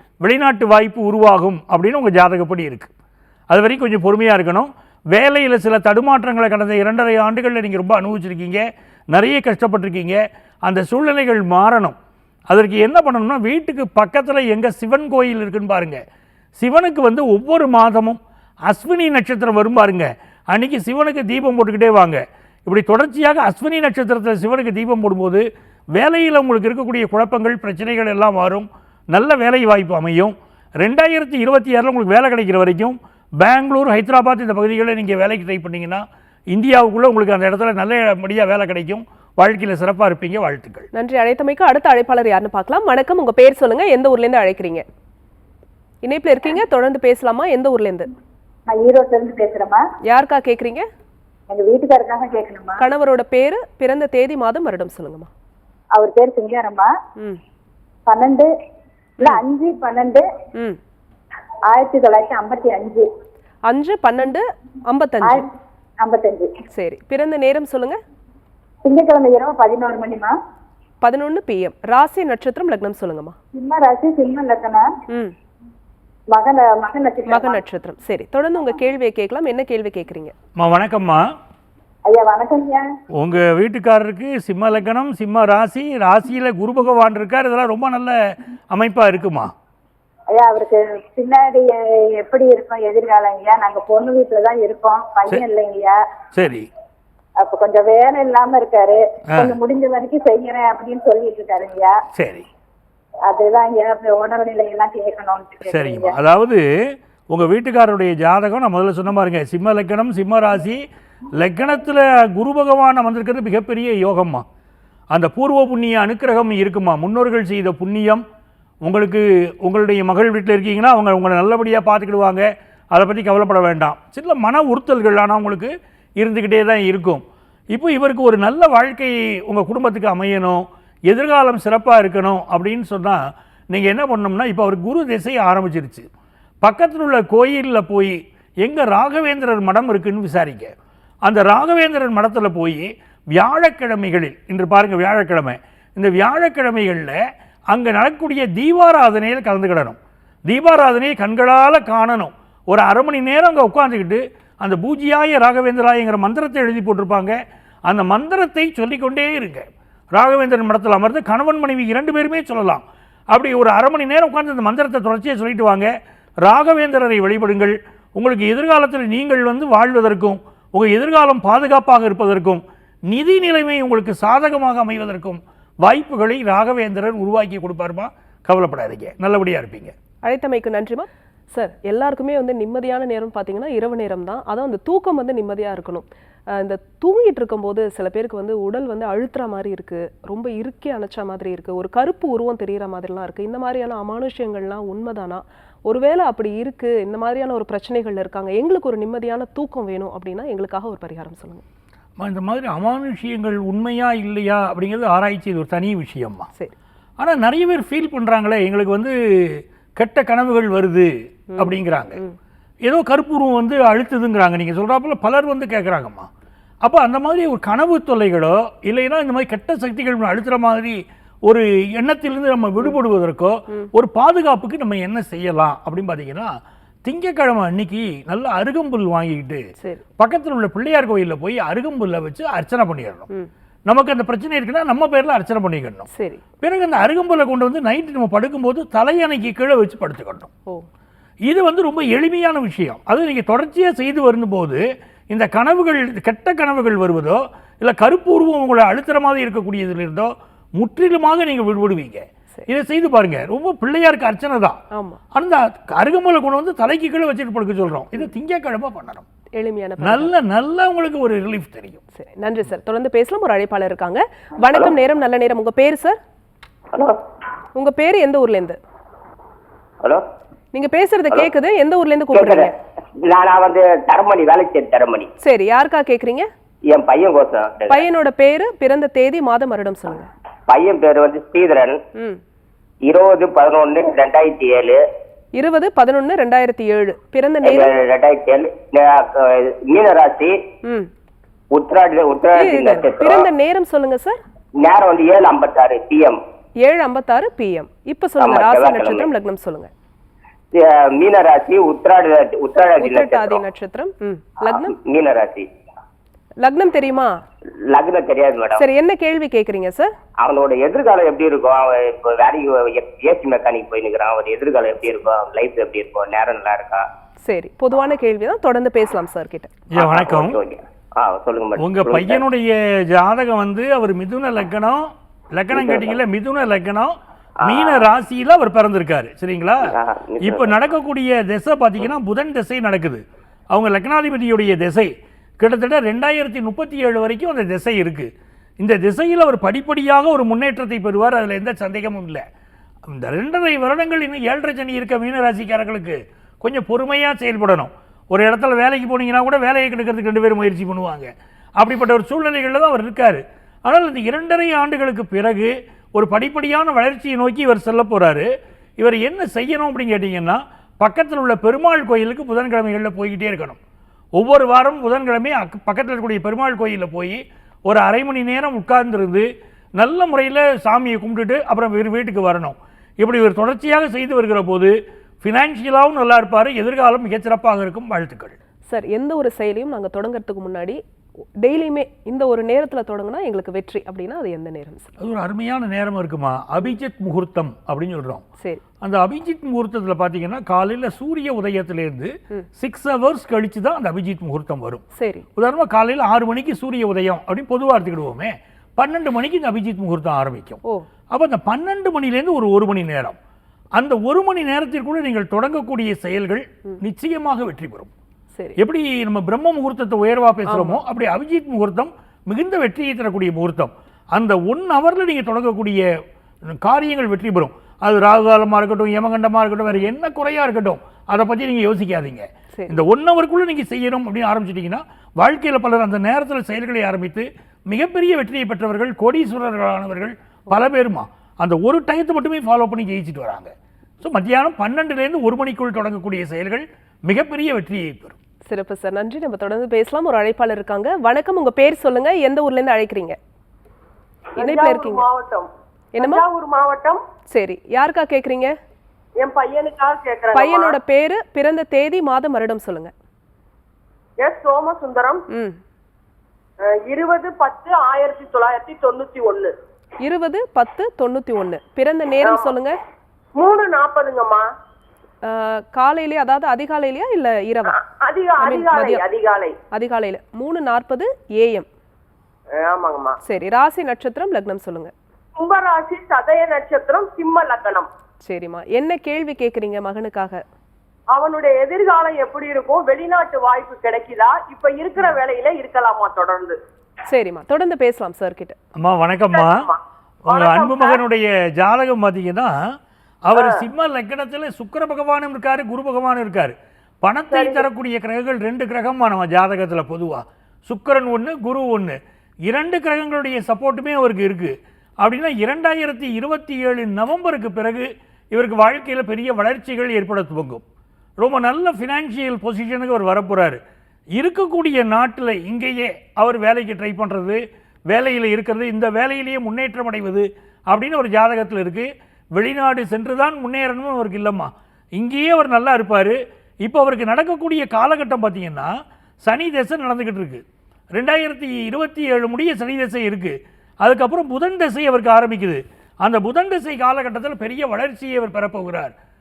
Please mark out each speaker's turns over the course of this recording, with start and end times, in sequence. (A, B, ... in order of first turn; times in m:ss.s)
0:00.2-0:02.9 A
0:03.5-0:11.9 A
0:12.5-0:16.0 A
0:16.6-0:25.4 A
0:25.9-0:40.9 A
0:40.9-0:44.8 B
0:46.0-0:48.1 B
0:48.7-0:49.8 C
0:50.0-0:50.8 B
0:51.5-0:52.8 C
0:52.8-0:55.3 B
0:55.9-0:56.9 C
0:58.1-0:58.5 C
0:59.2-1:00.2 C
1:01.7-1:03.0 C
1:03.7-1:05.4 B
1:06.0-1:06.5 C
1:06.7-1:08.0 B
1:08.8-1:10.3 C
1:11.0-1:13.4 B
1:13.5-1:14.8 C
1:16.3-1:17.6 C
1:17.3-1:20.3 B
1:20.6-1:21.2 A
1:22.0-1:22.8 C
1:23.2-1:29.5 A
1:30.3-1:36.0 C
1:36.3-1:36.7 A
1:37.4-1:41.9 C
1:39.3-1:39.6 A
1:42.1-1:42.5 A
1:43.2-1:46.1 C
1:45.7-1:46.6 A
1:47.3-1:50.8 A
1:51.3-1:54.4 A
1:55.1-1:58.2 A
1:58.8-2:16.0 A
2:16.6-2:20.7 A
2:21.2-2:27.2 A
2:27.7-2:45.9 A
2:46.4-2:59.9 A
3:00.2-3:21.6 B
3:22.2-3:26.5 A
3:27.2-3:32.2 A
3:31.6-3:32.4 B
3:32.8-3:36.3 A
3:36.8-3:46.5 A
3:47.0-3:49.6 A
3:50.2-3:53.3 A
3:53.9-3:56.1 A
3:56.1-3:56.4 B
3:56.6-4:00.5 A
4:01.5-4:14.8 A
4:14.9-4:15.2 B
4:15.3-4:19.2 A
4:19.6-4:20.3 B
4:20.0-4:22.0 A
4:22.1-4:26.2 B
4:27.7-4:28.8 B
4:30.7-4:32.7 B
4:32.3-4:32.7 D
4:33.2-4:35.3 D
4:35.4-4:36.5 B
4:36.9-4:38.1 D
4:37.9-4:40.3 B
4:40.7-4:42.0 D
4:43.1-4:45.0 D
4:45.6-4:47.9 B
4:47.6-4:50.6 D
4:50.8-4:51.1 B
4:51.7-4:53.5 D
4:52.5-4:54.4 B
4:54.8-4:56.4 D
4:56.8-4:59.9 B
4:58.4-4:59.3 D
5:00.7-5:03.6 D
5:03.0-5:04.9 B
5:04.8-5:05.7 D
5:06.6-5:07.4 B
5:07.9-5:08.8 D
5:08.8-5:10.1 B
5:10.4-5:17.0 D
5:17.4-5:19.7 B
5:19.9-5:20.6 A
5:19.9-5:22.4 D
5:21.8-5:38.3 A
5:25.7-5:26.2 D
5:27.6-5:28.1 D
5:29.9-5:30.7 D
5:38.8-5:42.4 A
5:43.1-5:58.5 A
5:59.0-6:03.8 A
6:04.4-6:09.5 A
6:10.0-6:18.5 A
6:18.9-6:21.0 B
6:21.6-6:25.1 B
6:25.2-6:28.4 A
6:29.0-6:35.0 A
6:35.2-6:35.4 B
6:35.6-6:40.8 A
6:41.3-6:43.4 A
6:44.0-6:48.1 A
6:48.8-6:56.0 A
6:50.7-6:51.0 B
6:56.7-7:18.3 A
7:18.7-7:23.4 B
7:24.6-7:25.3 B
7:24.6-7:27.2 E
7:26.1-7:26.5 B
7:27.5-7:28.7 B
7:29.4-7:31.0 E
7:30.5-7:33.1 B
7:34.4-7:35.4 E
7:35.5-7:35.8 B
7:36.8-7:39.7 E
7:40.2-7:43.0 B
7:42.4-7:42.7 E
7:43.6-7:44.7 E
7:45.4-7:48.0 B
7:47.9-7:49.8 E
7:48.6-7:49.3 B
7:49.9-7:51.9 B
7:52.7-7:53.4 E
7:53.4-7:55.1 B
7:55.6-7:58.1 E
7:58.4-8:00.6 B
8:01.3-8:06.8 E
8:07.3-8:08.8 B
8:09.0-8:09.9 A
8:09.5-8:11.2 E
8:10.4-8:12.7 A
8:13.4-8:30.8 A
8:13.6-8:13.8 E
8:17.5-8:17.8 E
8:31.4-8:33.8 A
8:34.4-8:48.9 A
8:49.4-8:50.6 A
8:51.1-8:59.1 A